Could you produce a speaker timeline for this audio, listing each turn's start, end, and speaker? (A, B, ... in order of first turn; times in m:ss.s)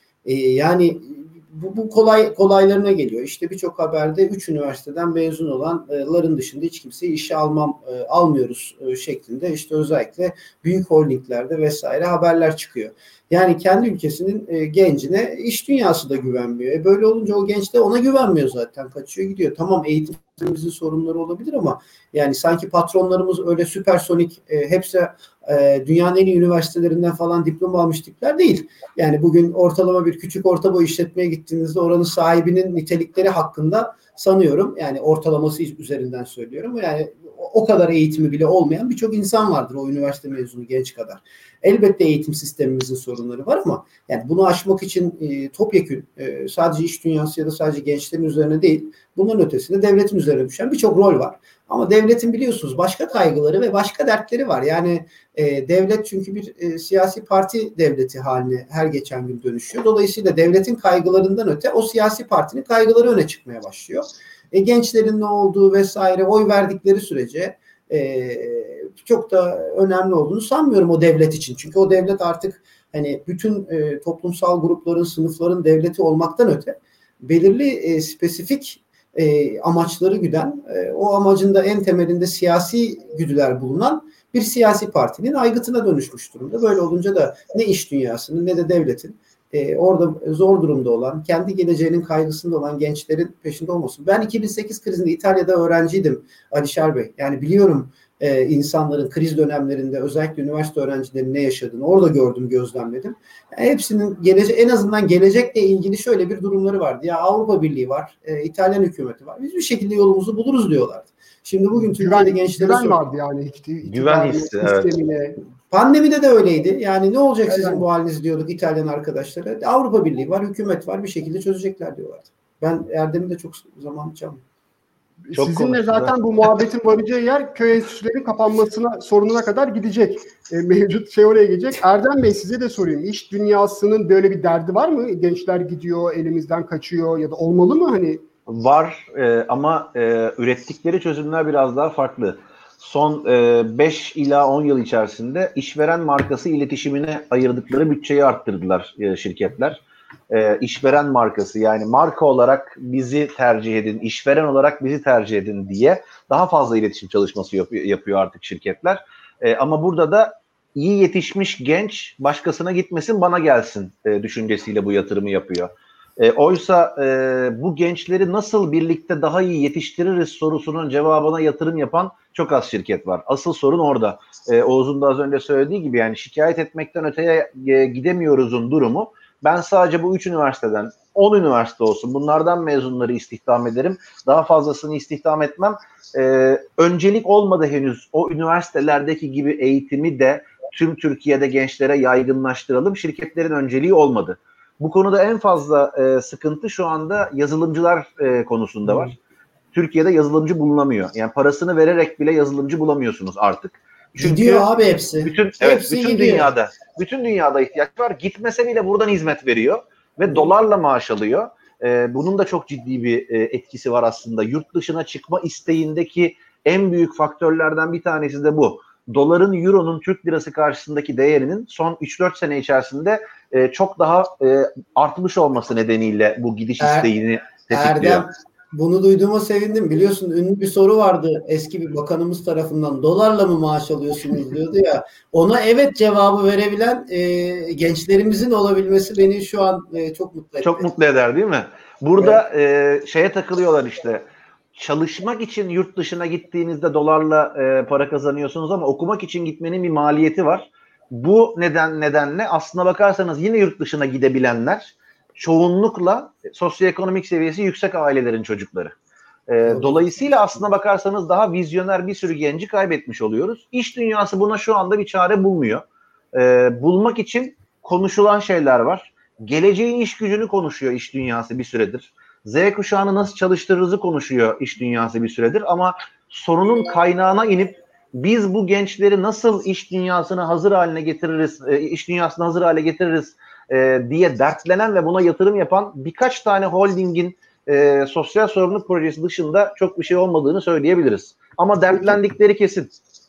0:00.2-1:53.0 A
1:51.8-1:55.4 B
1:53.9-1:54.9 C
1:55.7-2:04.4 A
1:57.5-1:57.8 B
2:05.3-2:18.2 B
2:05.3-2:06.1 C
2:18.5-3:19.2 C
3:18.9-3:19.1 A
3:19.7-3:24.7 C
3:24.2-3:26.5 A
3:25.2-3:48.2 C
3:46.8-3:47.1 A
3:47.7-4:00.9 A
4:00.6-4:04.2 C
4:02.2-4:02.4 A
4:04.8-4:19.0 C
4:19.5-4:52.9 C
4:19.6-4:20.2 A